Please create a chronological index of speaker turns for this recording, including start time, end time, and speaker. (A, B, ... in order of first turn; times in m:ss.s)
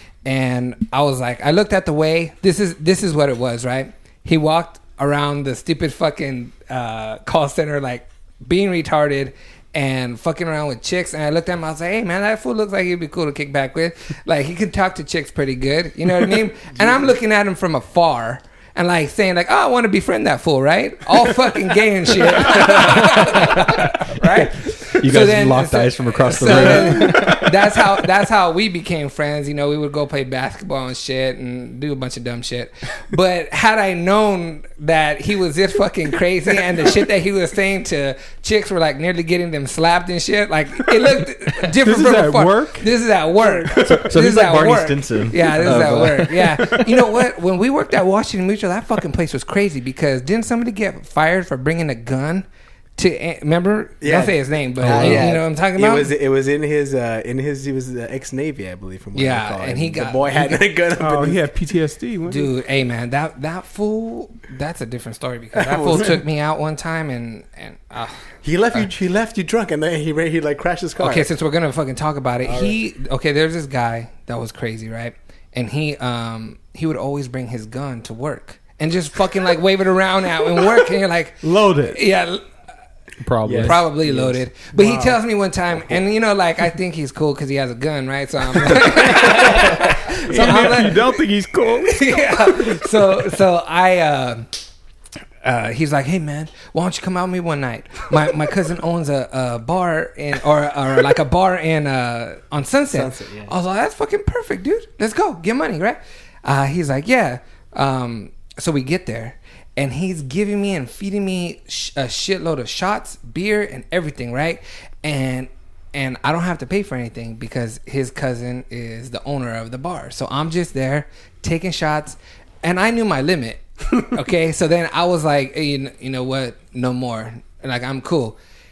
0:00.2-0:52.5 A
0:16.8-0:17.1 B
0:24.8-0:27.5 C
0:41.7-0:42.9 D
0:43.4-0:44.1 D
0:44.0-0:46.7 C
0:45.6-0:47.0 D
0:53.0-0:56.1 A
0:54.0-1:01.4 B
0:54.8-0:55.3 C
0:59.2-1:00.6 A
1:01.0-1:02.5 D
1:02.3-1:08.2 A
1:05.7-1:06.2 B
1:05.8-1:06.2 D
1:08.4-1:11.3 B
1:11.0-1:22.4 A
1:12.4-1:12.8 B
1:21.4-1:22.0 D
1:23.2-1:23.8 C
1:23.4-1:24.4 B
1:23.6-1:31.2 A
1:24.8-1:25.2 D
1:28.8-1:32.8 D
1:31.9-1:34.5 A
1:35.4-2:08.4 A
1:42.9-1:43.5 B